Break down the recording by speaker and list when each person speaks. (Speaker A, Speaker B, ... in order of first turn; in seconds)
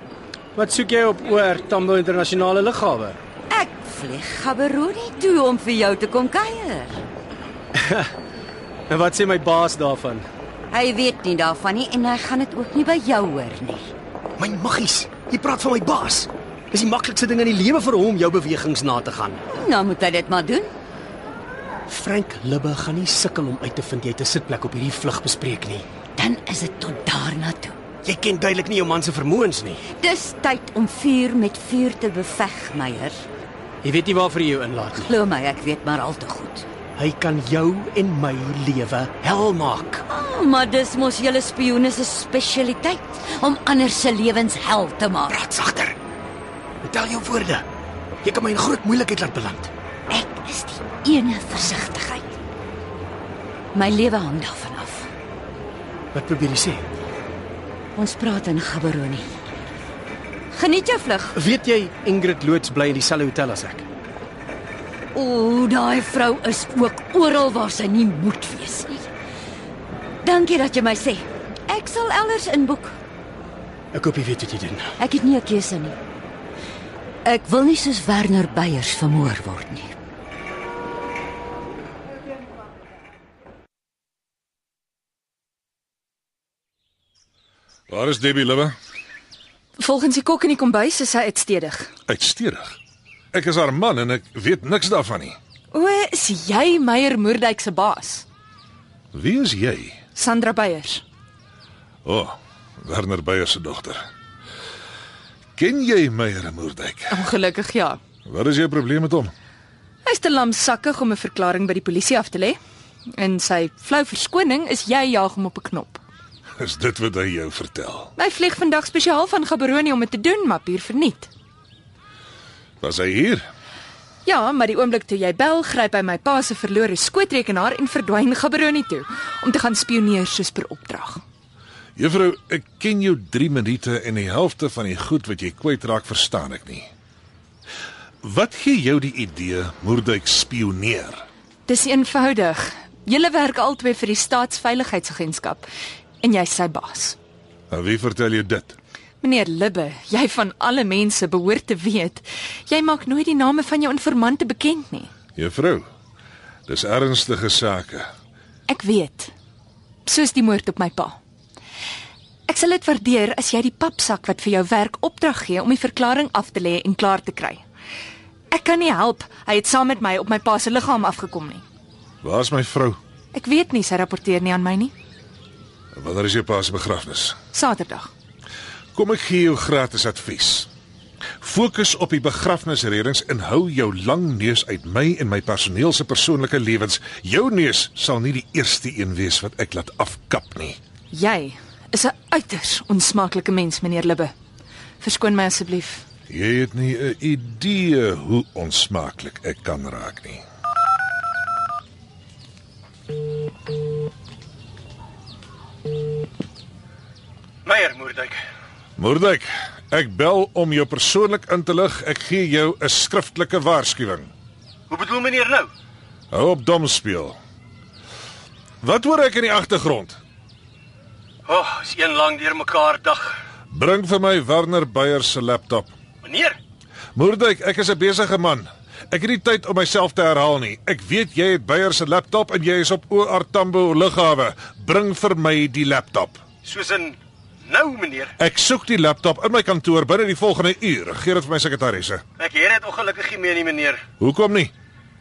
Speaker A: 0.6-3.2, 7.8-8.1, 8.9-10.3, 14.4-19.4, 21.9-25.9, 28.0-29.8, 33.8-35.1, 37.0-40.0, 45.3-46.0, 46.8-47.7, 48.2-49.7, 56.1-56.9, 61.4-63.9, 73.9-75.0, 207.7-208.4, 214.9-215.7, 221.5-223.4, 226.2-226.6, 236.6-238.3, 242.4-244.0
Speaker B: 3.5-7.0, 10.7-13.9, 19.5-20.7, 26.2-27.8, 29.9-33.2, 35.0-36.7, 40.1-45.4, 50.1-52.4, 53.7-55.1, 58.0-59.3, 60.5-61.4, 65.1-69.1, 70.2-73.0, 75.0-76.0, 77.2-80.0
Speaker C: 87.9-88.8, 92.1-92.8, 93.3-95.4, 99.1-100.0, 102.0-104.0, 105.6-107.2, 108.3-109.3, 116.6-118.1, 122.8-123.4, 132.0-136.9, 138.2-141.2, 147.7-148.8, 155.4-155.9, 156.7-158.1, 172.2-173.0, 175.9-177.4, 178.9-180.7, 181.4-190.8, 196.3-200.4, 209.0-214.3, 216.3-217.4, 218.8-220.2, 223.7-225.9, 227.2-236.4, 238.4-242.2, 244.2-244.7
Speaker D: 89.8-91.9, 95.7-98.3, 100.2-101.0, 107.1-108.0, 110.0-116.0, 118.2-121.3, 124.2-131.2, 141.7-145.7, 146.2-147.2, 149.2-155.1, 158.7-159.3, 160.1-161.2, 162.5-167.6, 168.5-171.6, 173.3-174.9, 177.5-178.1, 191.1-194.3, 195.0-196.0